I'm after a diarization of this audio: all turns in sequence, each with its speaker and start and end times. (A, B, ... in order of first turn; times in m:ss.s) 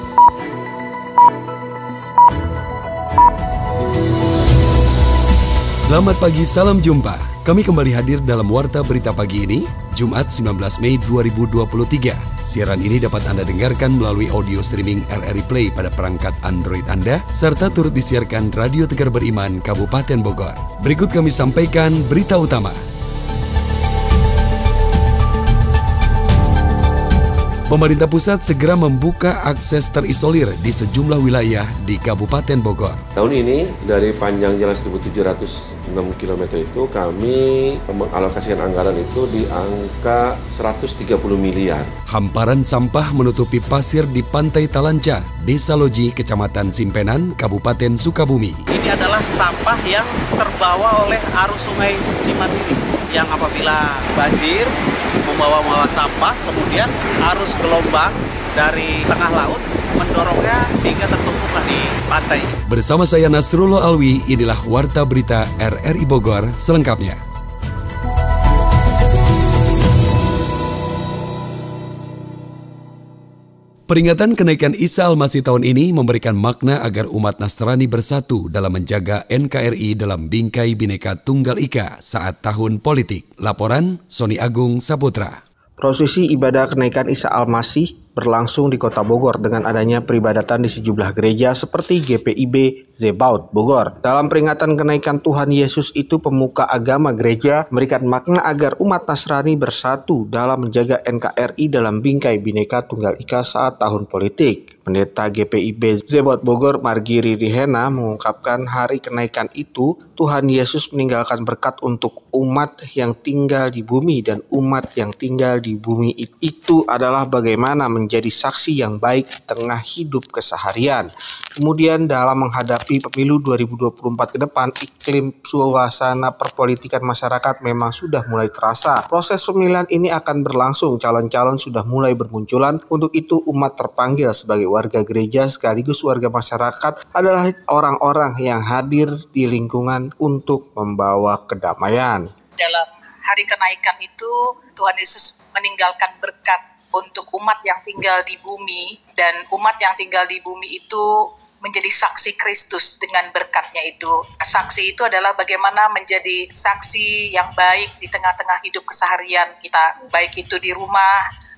0:05.9-0:22.8 A
0:27.7-0:33.0 A
0:33.2-0:41.9 B
0:42.1-0:48.6 A
0:48.7-0:54.7 C
0:55.3-1:02.5 C
1:02.7-1:07.2 A
1:13.9-1:25.4 A
1:25.8-2:01.1 D
2:01.6-2:22.3 D
2:22.6-2:31.1 E
2:31.6-2:41.1 E